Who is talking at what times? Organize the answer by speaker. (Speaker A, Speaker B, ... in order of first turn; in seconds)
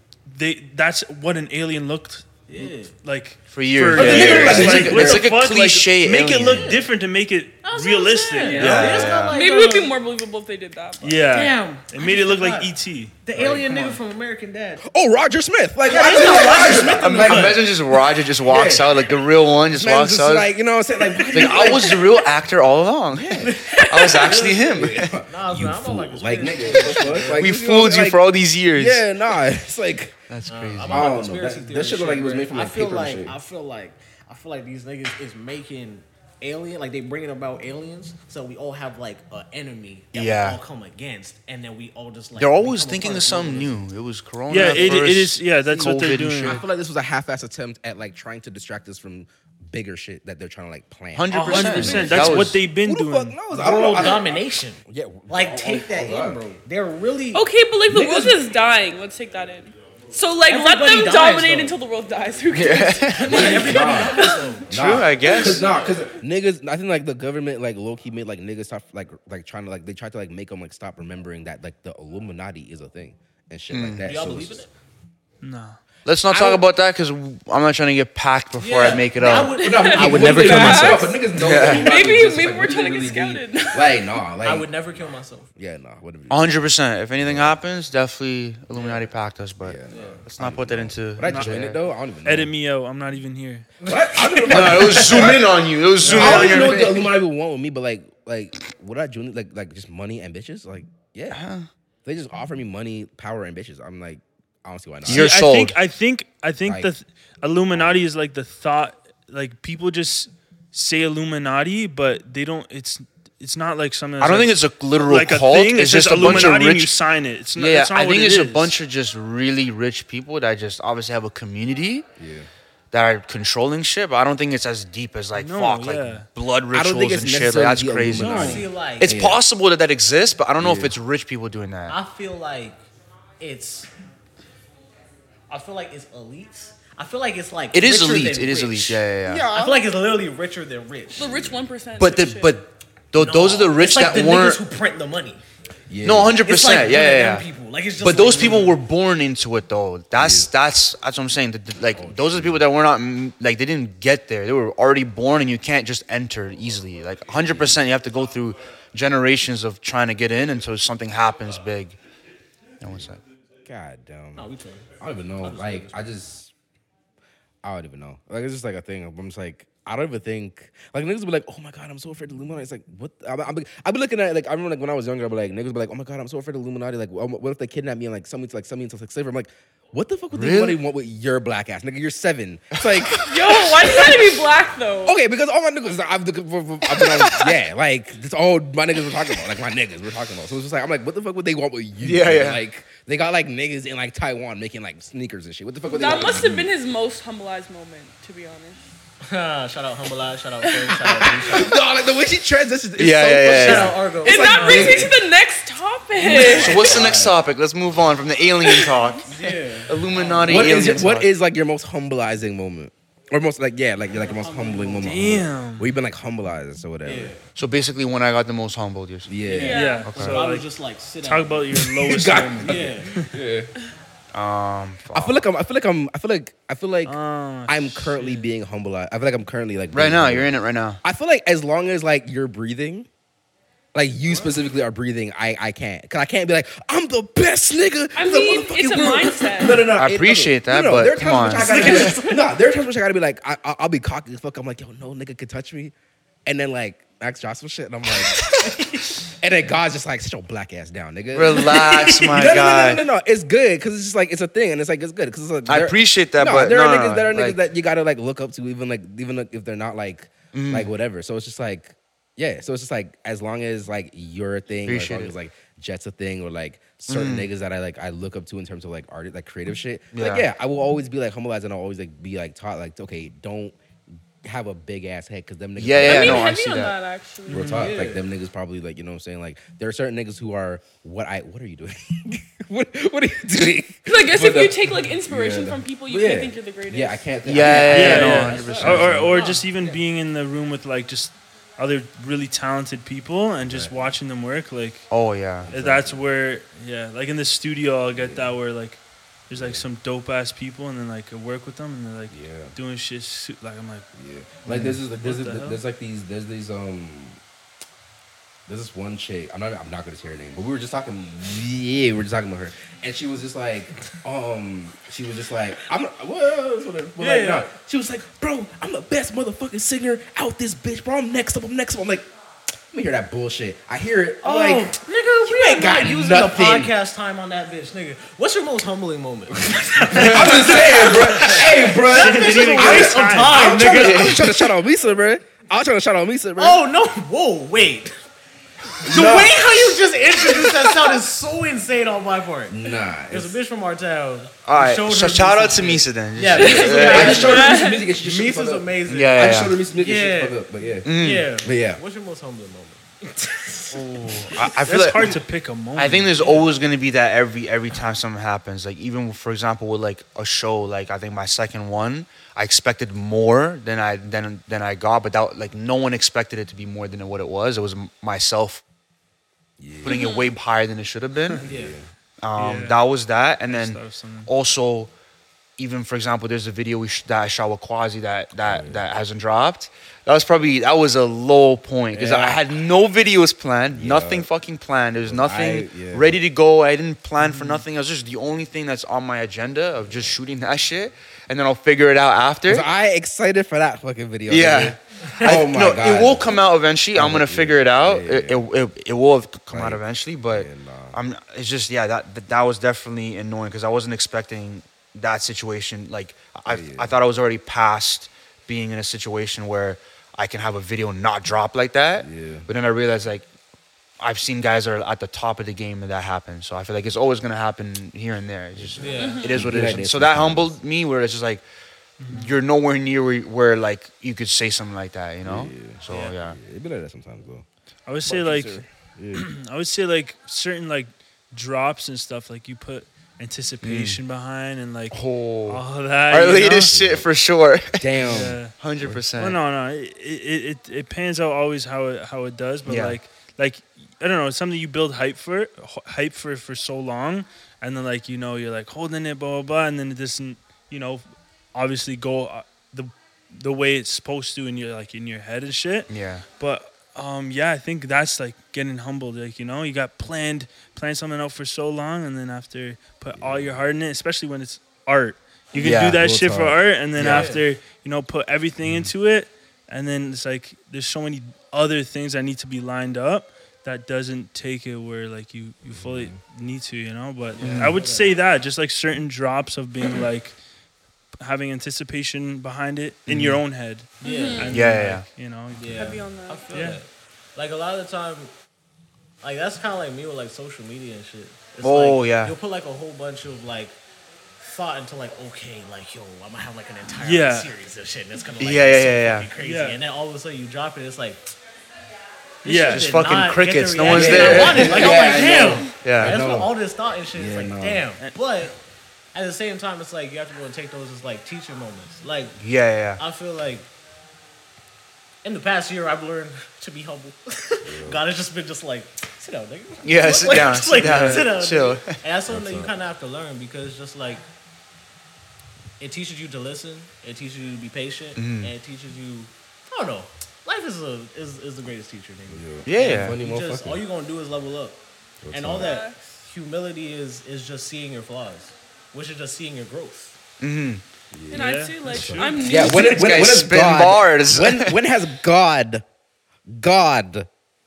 Speaker A: 0.3-9.1, 11.0-14.0, 44.5-46.6, 51.3-53.5, 75.4-75.8, 91.2-91.6, 92.2-93.7, 96.0-96.8, 105.0-118.7, 125.3-126.3, 215.0-215.9, 219.6-223.3, 227.1-228.5, 277.5-277.9, 287.8-295.1, 295.7-304.1, 305.2-305.8, 330.1-331.1, 332.1-334.2, 354.8-356.6, 372.6-373.0, 373.7-374.5, 387.4-387.8, 422.2-422.6, 428.1-436.9, 438.2-438.7, 439.3-480.6, 481.4-486.1, 486.7-487.0, 497.1-497.7, 499.6-500.0, 502.6-503.2, 520.9-521.5, 541.5-542.7
Speaker B: 2.5-2.9, 6.4-6.9, 7.6-9.9, 11.2-14.8, 15.8-17.7, 23.4-27.5, 30.5-43.8, 53.5-57.5, 60.5-61.8, 63.1-64.7, 65.3-65.8, 74.0-74.7, 78.6-81.1, 84.4-85.5, 88.7-89.0, 89.9-90.2, 94.2-95.4, 96.0-96.7, 128.1-129.1, 131.9-132.8, 133.4-133.9, 135.5-141.4, 143.1-145.4, 146.4-148.8, 164.4-166.1, 199.2-201.8, 203.4-205.1, 206.3-207.2, 209.2-211.0, 214.1-215.4, 217.0-217.4, 219.4-221.8, 222.6-223.2, 234.2-234.6, 241.5-242.4, 248.6-249.2, 251.7-252.1, 277.7-278.2, 288.2-290.0, 317.2-317.7, 324.4-334.6, 336.6-338.1, 339.0-354.6, 356.4-356.6, 371.6-372.0, 419.0-419.6, 467.2-467.6, 477.5-478.4, 484.2-484.8, 485.7-488.5, 489.4-493.9, 494.6-501.5, 502.6-508.8, 509.3-512.6, 513.2-513.9, 515.4-524.4, 526.0-535.0, 535.5-540.4
Speaker C: 3.5-6.7, 8.5-9.4, 16.3-20.5, 21.3-25.2, 27.3-29.1, 30.3-31.1, 40.1-40.6, 42.3-46.6, 51.1-52.6, 62.5-63.9, 64.7-65.7, 73.7-74.0, 76.0-80.8, 81.3-81.9, 86.3-91.8, 94.5-97.1, 101.3-101.7, 105.0-105.8, 114.2-116.9, 117.5-122.0, 122.9-132.0, 137.7-139.5, 142.0-144.6, 146.0-147.5, 148.0-162.0, 162.8-163.2, 180.3-180.8, 192.0-192.6, 203.0-204.0, 206.5-211.3, 217.5-219.4, 220.0-220.5, 224.3-225.4, 229.9-231.0, 239.9-241.8, 251.3-253.0, 255.7-257.6, 260.5-260.9, 264.9-265.3, 267.1-267.5, 270.1-270.5, 275.8-276.9, 287.4-289.4, 295.1-295.7, 304.6-305.0, 333.9-334.4, 339.0-339.7, 344.6-347.6, 349.1-349.8, 351.0-351.5, 353.9-355.4, 355.9-368.8, 370.0-371.6, 372.4-375.1, 375.8-392.9, 394.5-413.5, 414.2-421.6, 422.3-426.6, 433.8-434.2, 435.1-439.6, 442.9-443.2, 456.1-456.4, 465.7-466.2, 467.2-467.5, 477.6-478.0, 483.3-483.6, 484.6-485.2, 491.8-492.5, 498.6-499.5, 502.7-505.3, 506.0-506.4, 512.6-513.2, 520.0-522.2, 528.4-528.7, 532.8-533.4, 540.6-541.0, 542.7-545.0
Speaker D: 3.9-5.2, 14.8-17.7, 18.4-18.9, 19.7-22.1, 23.1-23.6, 24.3-30.2, 30.8-33.4, 44.5-45.0, 45.6-56.4, 57.9-58.4, 63.2-74.6, 76.3-76.6, 79.6-86.6, 87.2-87.6, 89.6-92.5, 93.8-101.4, 102.0-105.3, 106.6-106.9, 107.7-108.0, 116.2-116.6, 122.2-122.5, 126.7-129.4, 130.6-130.9, 139.3-139.8, 141.2-141.5, 145.9-146.4, 150.1-150.5, 151.8-152.7, 157.4-157.8, 162.8-163.1, 163.6-164.5, 165.0-166.5, 167.6-184.3, 185.0-196.7, 201.1-205.2, 206.2-207.3, 210.4-217.3, 219.3-219.8, 221.9-223.7, 225.1-230.5, 231.0-233.1, 233.9-245.9, 246.4-273.8, 274.4-276.5, 277.5-289.3, 293.6-294.1, 295.6-296.2, 298.1-298.5, 299.5-299.8, 302.3-302.7, 304.1-307.4, 308.7-322.2, 322.9-326.9, 330.1-336.8, 339.1-339.5, 342.7-343.6, 346.5-351.1, 351.6-352.0, 369.8-370.2, 371.6-372.1, 378.6-379.1, 382.1-382.6, 383.9-384.5, 385.2-386.4, 390.0-390.4, 392.7-396.6, 397.1-398.6, 399.7-401.2, 406.7-407.1, 412.2-412.7, 418.7-420.8, 425.4-427.6, 428.2-429.5, 436.9-437.3, 438.0-439.2, 463.3-463.8, 466.0-467.5, 468.8-469.1, 475.9-476.4, 504.0-506.7, 507.3-508.1, 517.8-518.2, 522.5-522.9, 532.5-534.0, 535.4-536.0, 541.3-546.0, 546.7-547.5
Speaker E: 8.4-11.2, 57.3-64.5, 79.5-84.0, 141.1-142.6, 183.2-185.2, 195.9-198.8, 204.2-206.9, 208.6-209.1, 219.5-220.1, 238.2-239.9, 241.8-242.3, 276.0-277.8, 284.0-287.2, 346.6-348.1, 370.0-370.5, 419.2-419.5, 484.2-484.7, 485.9-486.7, 505.1-505.8, 535.7-536.2, 541.5-543.3